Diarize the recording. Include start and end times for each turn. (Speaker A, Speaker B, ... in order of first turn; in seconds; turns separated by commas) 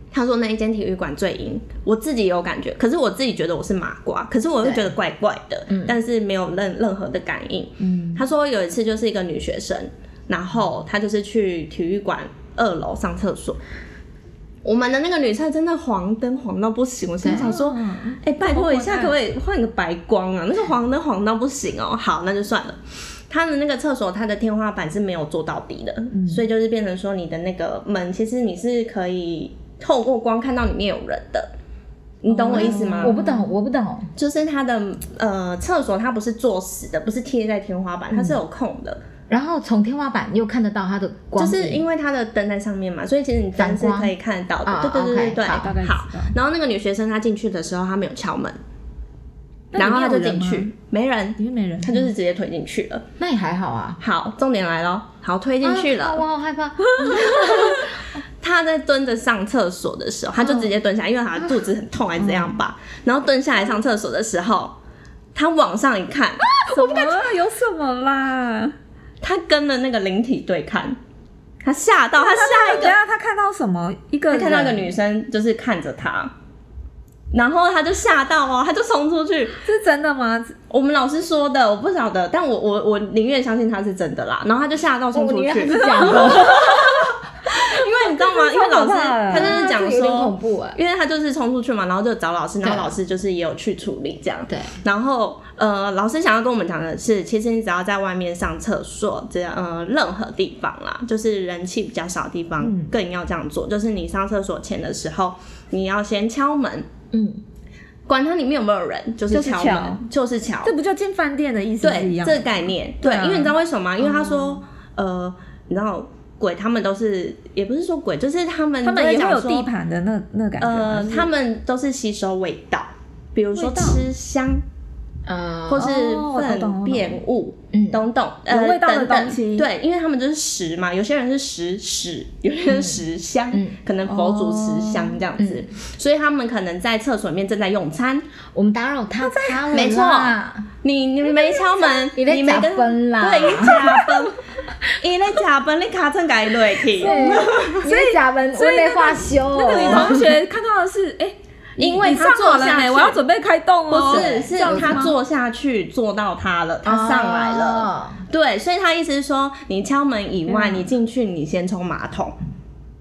Speaker A: 0.1-13.6, Speaker B: 4.6-4.9, Speaker B: 5.7-6.0, Speaker C: 7.8-8.2, Speaker A: 14.6-31.5, Speaker B: 17.2-17.5, Speaker C: 17.2-19.1, Speaker C: 26.1-26.4, Speaker A: 32.2-33.2, Speaker C: 32.3-33.5, Speaker B: 32.5-34.1, Speaker A: 34.2-39.0, Speaker B: 39.3-41.9, Speaker A: 41.4-48.6, Speaker B: 43.6-45.7, Speaker C: 45.5-46.4, Speaker C: 49.7-50.7, Speaker A: 49.8-53.0, Speaker C: 51.4-52.1, Speaker B: 53.2-54.0, Speaker A: 54.0-56.2, Speaker B: 55.6-58.0, Speaker C: 57.0-57.8, Speaker A: 57.1-57.9, Speaker A: 58.4-64.8, Speaker C: 62.2-62.6, Speaker A: 65.3-66.9, Speaker C: 66.6-68.8, Speaker A: 69.2-71.0, Speaker A: 71.6-73.0, Speaker C: 72.2-74.9, Speaker A: 74.3-76.3, Speaker A: 77.3-79.6, Speaker C: 79.6-80.6, Speaker A: 80.7-106.9, Speaker B: 85.1-86.9, Speaker C: 85.7-87.1, Speaker C: 88.1-89.6, Speaker B: 89.3-90.8, Speaker B: 92.6-93.0, Speaker B: 94.5-94.8, Speaker C: 102.6-102.9, Speaker B: 107.1-107.4, Speaker A: 108.1-110.8, Speaker C: 109.3-110.0, Speaker C: 110.7-113.5, Speaker A: 111.8-119.7, Speaker C: 118.8-121.3, Speaker A: 120.6-124.6, Speaker C: 123.5-124.0, Speaker B: 125.3-125.9, Speaker A: 125.7-138.3, Speaker C: 125.8-127.2, Speaker B: 127.7-128.0, Speaker C: 128.5-129.7, Speaker B: 132.7-133.0, Speaker C: 134.1-135.2, Speaker B: 135.4-135.6, Speaker B: 138.5-140.7, Speaker C: 139.2-139.9, Speaker A: 139.7-147.8, Speaker B: 142.2-143.9, Speaker C: 143.7-144.0, Speaker B: 147.0-150.3, Speaker C: 147.0-155.2, Speaker A: 149.7-150.3, Speaker A: 151.8-153.2, Speaker A: 153.9-162.4, Speaker B: 154.0-155.1, Speaker B: 156.8-158.2, Speaker C: 160.5-160.9